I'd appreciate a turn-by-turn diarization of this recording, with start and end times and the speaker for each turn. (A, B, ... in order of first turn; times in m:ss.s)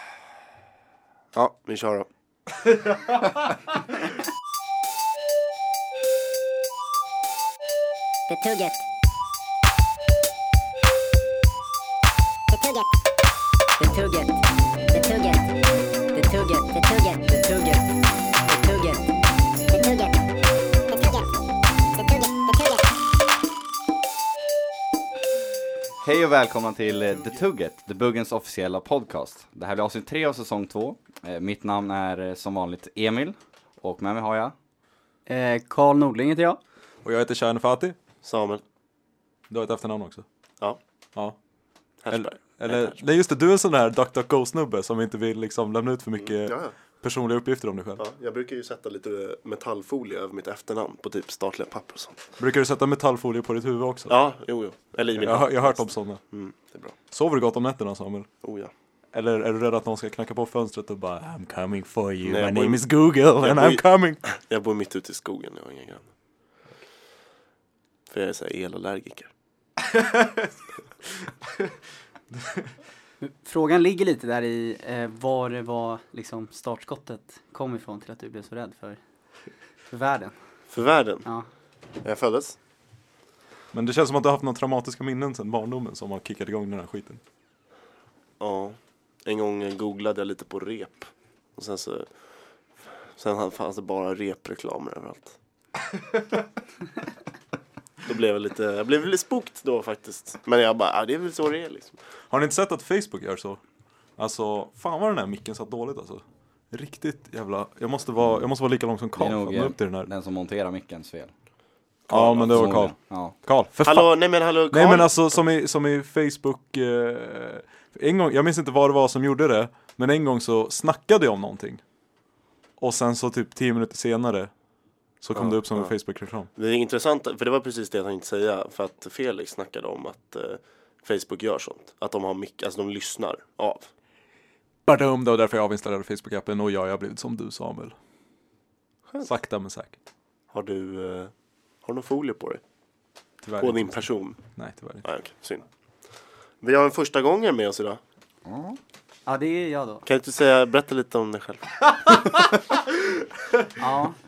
0:01.3-0:02.1 A
0:08.3-0:08.8 B
0:12.5-0:12.9 B
0:13.8-0:15.5 B
0:16.1-0:17.8 B
0:18.5-0:19.1 B
0:19.7-0:20.2 B
0:20.9-0:21.3 B
0:21.9-0:22.9 B
0:26.0-0:34.6 C
0:35.3-0:36.6 D
0:37.0-0:38.0 E
0:38.2-0:38.6 A
0:39.5-0:40.2 E
0:42.0-0:43.0 A
0:42.1-0:48.0 E
0:46.2-0:46.7 A
0:48.0-0:52.2 A
0:52.4-0:54.2 E
0:54.1-0:56.9 A
0:55.2-0:56.2 E
0:57.1-0:58.3 E
0:58.4-0:58.7 A
0:59.1-1:04.2 E
1:02.3-1:02.8 A
1:03.4-1:06.1 A
1:08.1-1:09.3 A
1:09.9-1:10.4 E
1:13.2-1:19.0 D
1:19.9-1:20.4 D
1:20.7-1:21.2 A
1:22.0-1:22.6 A
1:23.7-1:27.2 E
1:28.4-1:32.1 A
1:33.2-1:35.4 A
1:38.0-1:42.0 A
1:42.3-1:43.6 E
1:44.2-1:50.1 E
1:49.2-1:51.3 C
1:52.1-1:54.1 E
1:52.1-1:52.7 A
1:52.4-1:53.4 C
1:53.8-1:55.1 A
1:54.7-2:01.8 E
2:02.8-2:04.5 E
2:05.2-2:06.5 E
2:05.4-2:05.9 A
2:06.6-2:13.9 A
2:14.9-2:18.0 E
2:19.2-2:20.0 E
2:20.5-2:21.3 A
2:21.8-2:22.6 A
2:23.4-2:25.1 E
2:23.6-2:24.4 A
2:25.0-2:25.6 A
2:26.6-2:28.0 A
2:28.5-2:28.8 C
2:29.3-2:30.1 D
2:30.1-2:31.8 A
2:33.8-2:34.2 D